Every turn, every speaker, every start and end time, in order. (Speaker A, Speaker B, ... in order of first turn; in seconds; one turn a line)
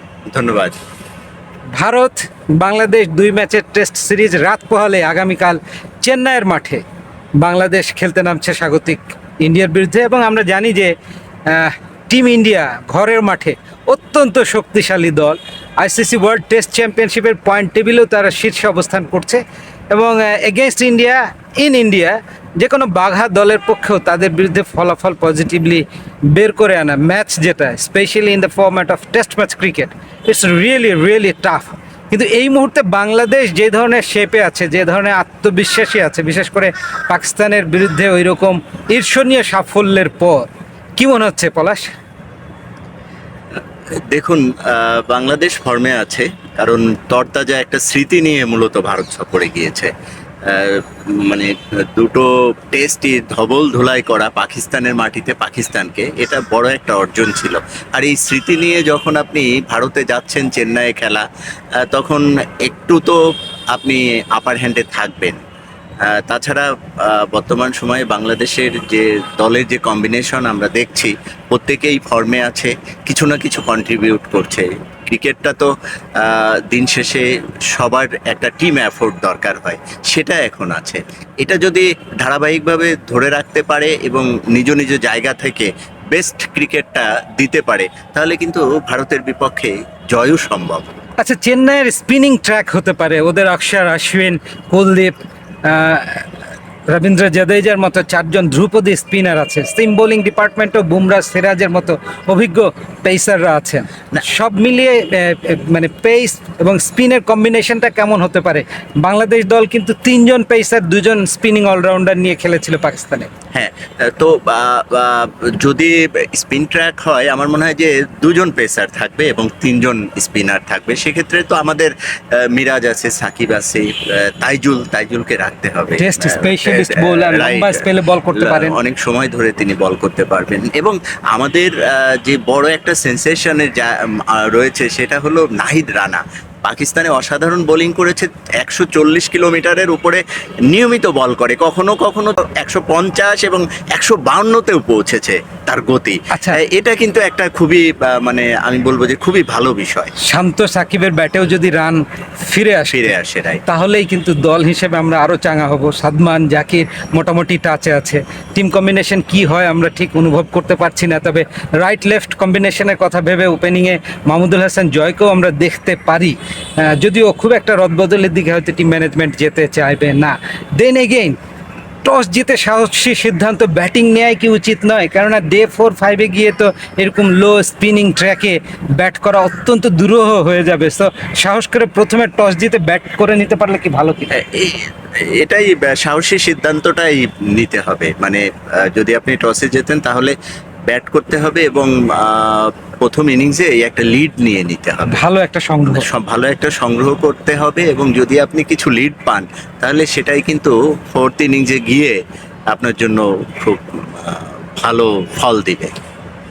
Speaker A: 0.3-0.8
Speaker B: 1.8-6.8
Speaker B: 7.4-10.9
Speaker B: 11.5-41.9
Speaker A: 44.1-49.9
Speaker A: 50.5-61.2
Speaker A: 61.8-63.2
Speaker A: 63.7-65.4
Speaker A: 66.0-90.9
Speaker B: 91.2-96.3
Speaker B: 96.9-113.3
Speaker A: 113.5-150.1
Speaker B: 126.0-128.8
Speaker B: 146.3-146.6
Speaker B: 150.2-153.1
Speaker A: 152.9-153.6
Speaker B: 153.7-171.4
Speaker B: 172.0-184.4
Speaker A: 184.3-190.3
Speaker A: 190.9-195.2
Speaker B: 195.1-196.1
Speaker A: 195.9-202.2
Speaker A: 202.7-205.9